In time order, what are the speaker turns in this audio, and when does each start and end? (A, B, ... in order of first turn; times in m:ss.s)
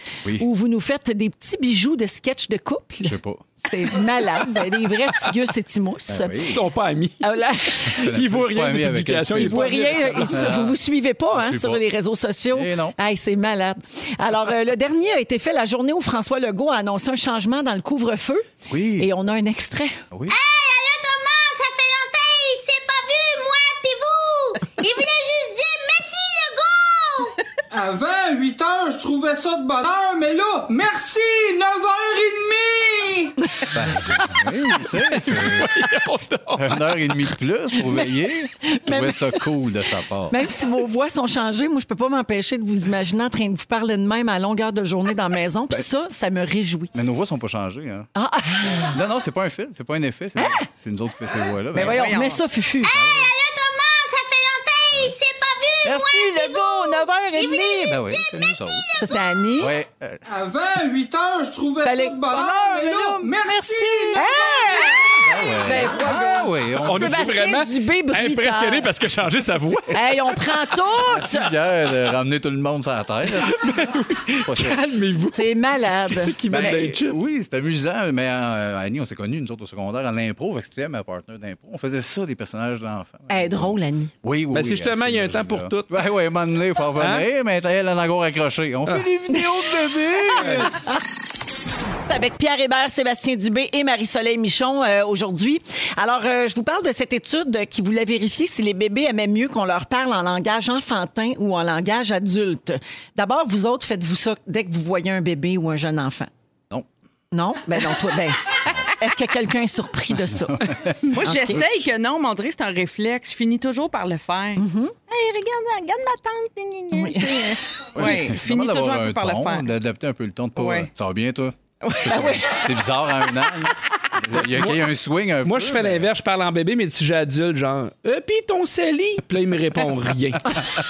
0:00.4-0:06.5 A
0:03.0-0:03.5 B
0:06.1-0:06.6 B
0:06.5-0:07.3 C
0:07.2-0:08.0 A
0:07.9-0:10.8 B
0:08.0-0:10.6 C
0:09.4-0:18.4 A
0:11.3-0:11.8 B
0:12.5-0:13.0 B
0:18.7-0:19.1 B
0:19.0-0:20.0 A
0:20.1-0:20.4 B
0:20.3-0:27.4 D
0:27.7-0:33.4 E
0:33.5-0:34.4 A
0:33.7-0:36.0 B
0:35.1-0:37.0 C
0:36.6-0:40.5 B
0:38.6-0:39.5 A
0:40.3-0:46.9 A
0:46.9-0:48.1 B
0:48.2-0:49.0 A
0:48.6-0:52.1 B
0:50.4-0:50.6 A
0:51.7-0:52.9 A
0:51.8-0:52.4 F
0:52.9-0:59.3 D
0:52.9-0:53.3 B
0:55.8-0:59.0 B
0:59.0-0:59.8 A
0:59.6-1:00.2 B
1:00.3-1:05.2 E
1:01.8-1:02.8 A
1:02.3-1:04.0 B
1:04.1-1:08.9 A
1:05.2-1:07.4 B
1:06.8-1:10.4 C
1:09.9-1:11.5 A
1:11.1-1:14.8 B
1:13.4-1:15.5 C
1:15.3-1:16.8 A
1:16.1-1:17.2 C
1:16.5-1:31.0 B
1:23.3-1:24.1 A
1:24.5-1:25.9 C
1:27.0-1:27.3 C
1:30.4-1:30.7 C
1:32.1-1:46.3 A
1:47.3-1:51.6 A
1:50.3-1:51.6 B
1:51.1-1:59.7 F
1:54.6-1:55.0 A
1:56.9-1:57.6 A
1:58.0-2:06.1 B
2:00.6-2:00.9 F
2:01.8-2:02.6 F
2:04.4-2:04.9 C
2:05.4-2:10.6 C